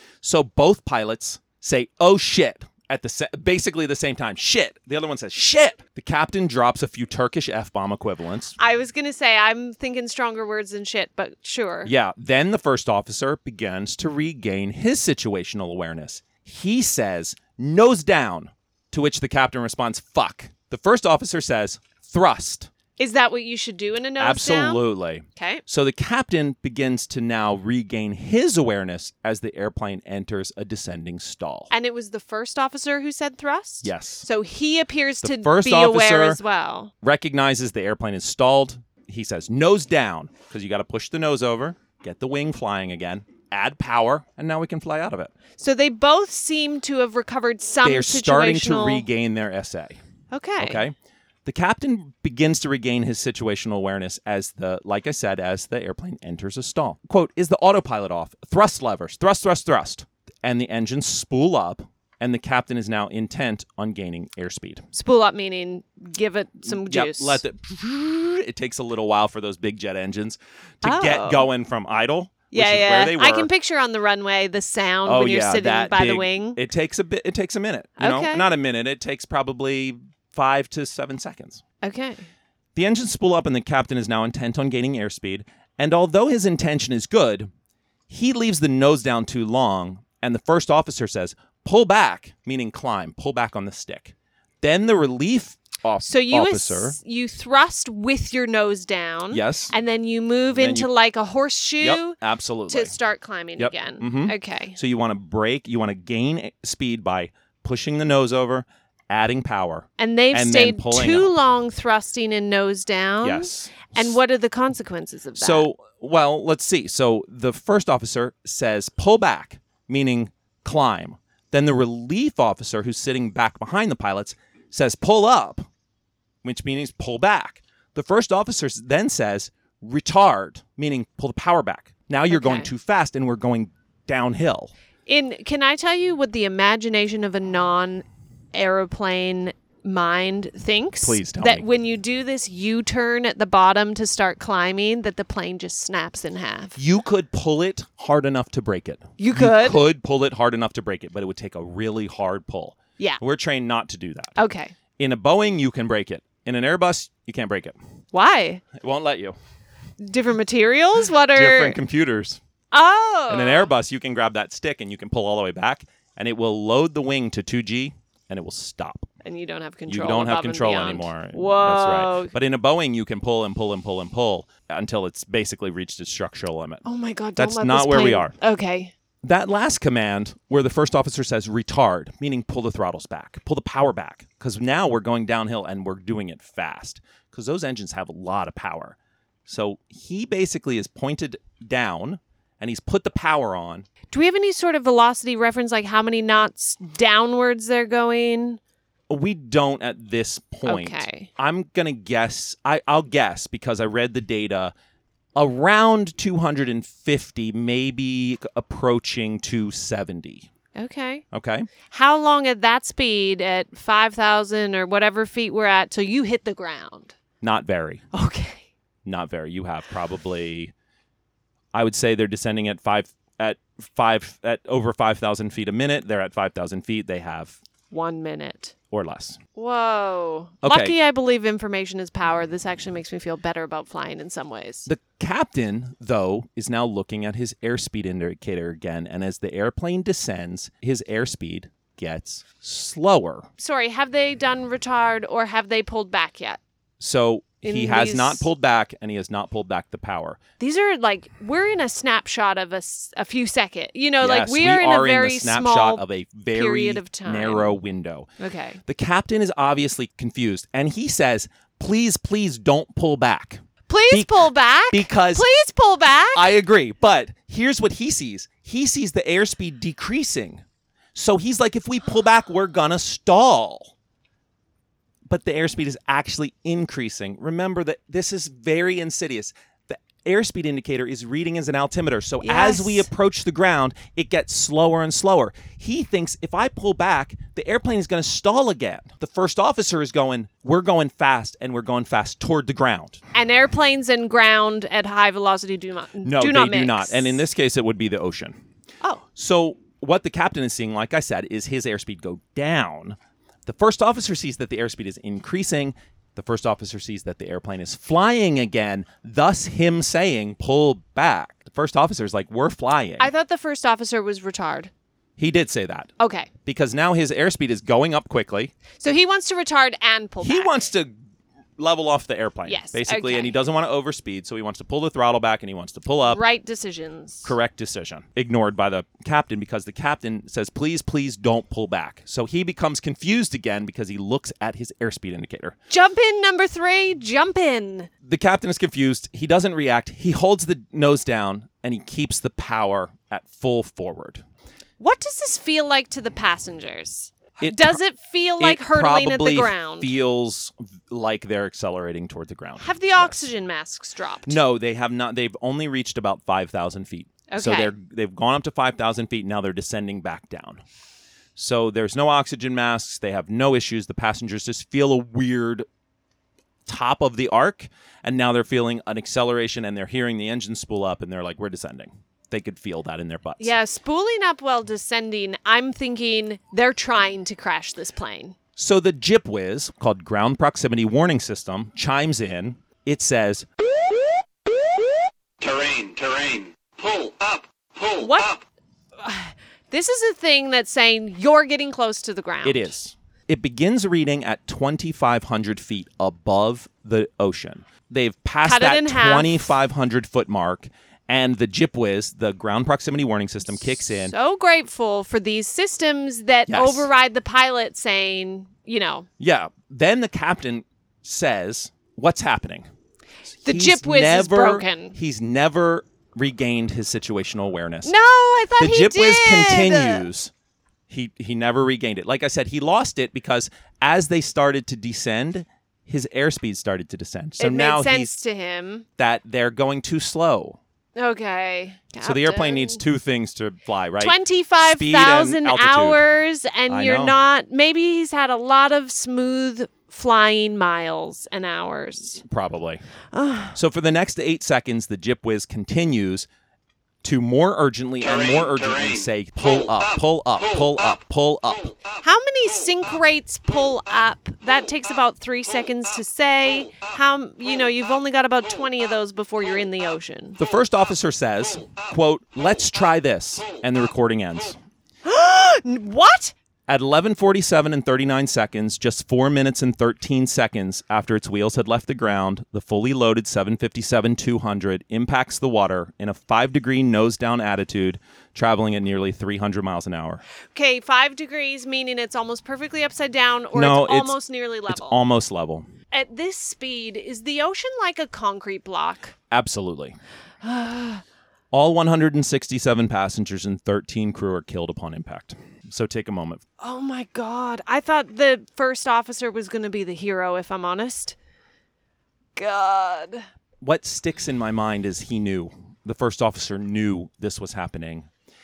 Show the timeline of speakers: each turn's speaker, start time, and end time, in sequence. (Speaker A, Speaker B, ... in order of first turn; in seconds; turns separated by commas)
Speaker A: 0.2-8.6, Speaker B: 8.6-11.9, Speaker A: 11.8-22.7, Speaker B: 23.0-24.8, Speaker A: 24.2-31.7, Speaker B: 25.4-25.6, Speaker B: 31.7-36.9, Speaker A: 33.8-34.3, Speaker A: 35.2-36.4, Speaker A: 37.0-45.3, Speaker B: 45.6-49.0, Speaker A: 47.8-50.0, Speaker B: 50.3-50.8, Speaker A: 50.6-64.8, Speaker B: 64.9-67.4, Speaker A: 66.6-73.5, Speaker B: 70.8-71.5, Speaker B: 72.5-76.6, Speaker A: 75.0-81.6, Speaker B: 78.0-78.5, Speaker B: 81.8-82.2, Speaker A: 82.7-87.5, Speaker A: 88.1-97.0, Speaker B: 96.0-104.8, Speaker A: 99.3-99.7, Speaker A: 100.5-100.9, Speaker A: 101.8-102.9, Speaker A: 103.6-111.3, Speaker B: 110.0-115.7, Speaker A: 113.2-114.2, Speaker A: 115.3-125.7, Speaker A: 126.4-134.7, Speaker B: 132.3-132.7, Speaker B: 135.1-146.8, Speaker A: 141.0-141.7, Speaker A: 146.8-154.3, Speaker B: 149.2-149.8, Speaker B: 154.4-154.7, Speaker A: 155.0-157.8, Speaker B: 158.1-158.6, Speaker A: 158.7-159.4, Speaker B: 160.0-161.8, Speaker A: 161.3-162.4, Speaker B: 162.7-163.7, Speaker A: 163.3-169.1, Speaker B: 169.2-172.3, Speaker A: 169.9-176.8, Speaker B: 176.8-178.9, Speaker A: 177.4-178.3, Speaker A: 179.2-188.9, Speaker A: 189.5-193.9, Speaker B: 194.1-198.6, Speaker A: 199.1-204.7, Speaker B: 200.7-201.3, Speaker A: 205.3-210.5, Speaker B: 210.8-211.2, Speaker A: 211.3-211.7, Speaker B: 211.9-217.1, Speaker A: 217.4-218.0, Speaker B: 218.1-218.6, Speaker A: 219.0-220.7, Speaker A: 221.7-227.6, Speaker B: 227.9-228.7, Speaker A: 228.9-229.4, Speaker B: 229.6-234.9, Speaker A: 230.6-230.9, Speaker A: 234.8-243.5, Speaker B: 243.6-246.6, Speaker A: 247.0-250.4, Speaker B: 247.6-248.5, Speaker B: 250.6-257.8, Speaker A: 254.2-258.3, Speaker B: 258.4-258.8, Speaker A: 258.8-265.4, Speaker B: 263.9-266.5, Speaker A: 266.3-270.6, Speaker A: 271.1-273.9, Speaker A: 275.3-293.2, Speaker B: 282.4-283.1, Speaker B: 293.3-297.4, Speaker A: 296.2-298.6, Speaker A: 299.4-313.3, Speaker B: 313.2-314.9, Speaker A: 315.4-316.1, Speaker B: 316.2-316.5, Speaker A: 316.6-318.7, Speaker B: 319.0-320.9, Speaker A: 320.4-321.1, Speaker A: 321.8-326.4, Speaker B: 322.6-323.6, Speaker B: 326.2-327.5, Speaker A: 327.4-335.8, Speaker B: 335.9-338.1, Speaker A: 338.2-344.4, Speaker B: 345.0-350.1, Speaker A: 347.6-348.0, Speaker A: 348.6-353.4, Speaker B: 352.8-354.6, Speaker A: 354.4-360.8, Speaker B: 357.5-357.9, Speaker A: 361.6-365.9, Speaker A: 366.9-373.7, Speaker B: 373.6-378.5, Speaker A: 378.8-383.6, Speaker C: 385.6-388.6, Speaker B: 388.2-388.5, Speaker B: 389.2-392.9, Speaker A: 392.6-404.3, Speaker B: 398.6-399.7, Speaker B: 404.1-409.3, Speaker A: 406.7-407.1, Speaker A: 409.4-412.9, Speaker A: 413.6-418.1, Speaker B: 413.6-415.2, Speaker B: 418.0-420.2, Speaker A: 418.8-420.5, Speaker A: 421.1-428.3, Speaker B: 427.6-429.1, Speaker A: 429.2-430.8, Speaker B: 431.1-433.0, Speaker A: 432.2-436.2, Speaker B: 434.2-442.4, Speaker A: 436.9-437.4, Speaker A: 442.4-443.0, Speaker B: 443.3-443.8, Speaker A: 443.7-446.5, Speaker A: 447.2-451.9, Speaker C: 448.2-449.2, Speaker B: 452.2-460.6, Speaker A: 460.6-464.8, Speaker B: 465.2-466.5, Speaker A: 466.9-480.4, Speaker B: 480.7-485.2, Speaker A: 483.7-485.9, Speaker B: 486.1-489.3, Speaker A: 489.5-490.2, Speaker B: 490.6-491.2, Speaker A: 491.7-496.6, Speaker B: 496.8-501.4, Speaker B: 502.6-503.4, Speaker A: 503.8-508.3